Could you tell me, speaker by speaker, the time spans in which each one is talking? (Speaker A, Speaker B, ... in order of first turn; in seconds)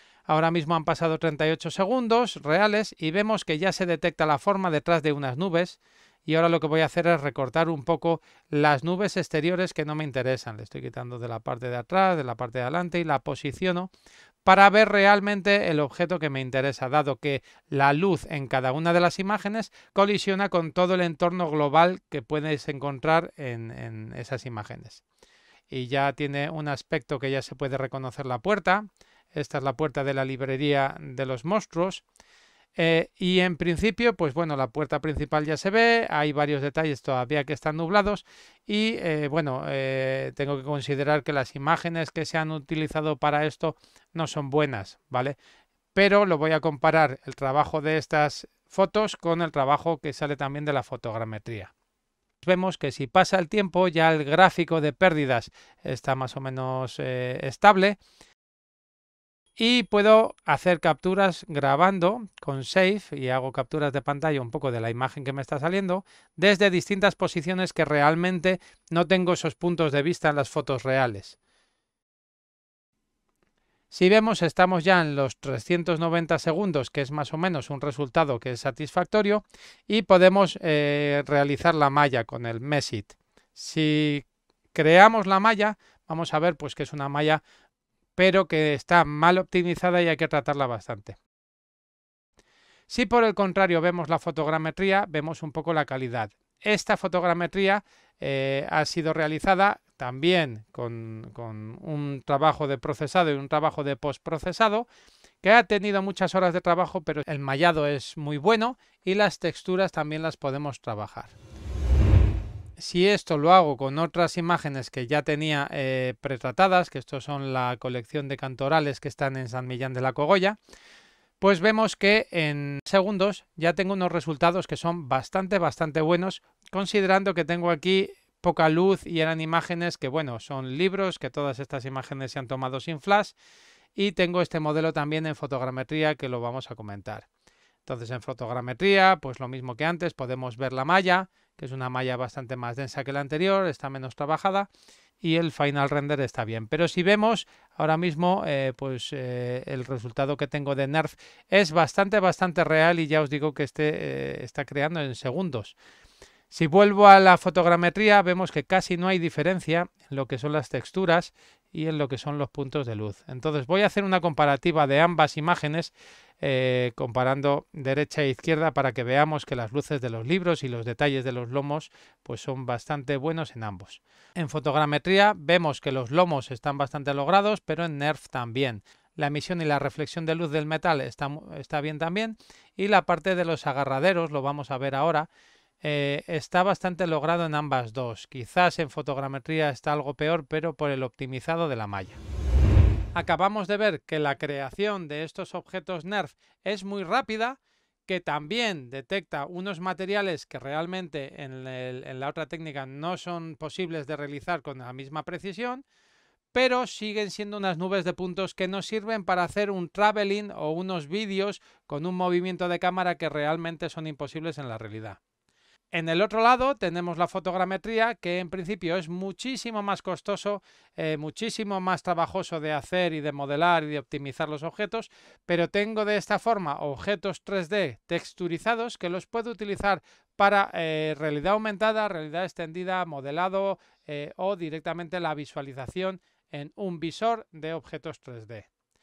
Speaker A: 0.3-13.9, 14.4-25.0, 25.7-32.0, 32.8-45.4, 45.9-51.7, 52.4-58.0, 59.6-71.4, 73.9-87.4, 88.2-91.2, 92.9-104.9, 105.4-111.3, 112.8-120.6, 121.4-133.3, 134.0-137.3, 137.8-144.7, 145.2-155.8, 156.5-185.3, 185.8-192.2, 193.2-205.8, 206.5-215.2, 215.9-238.7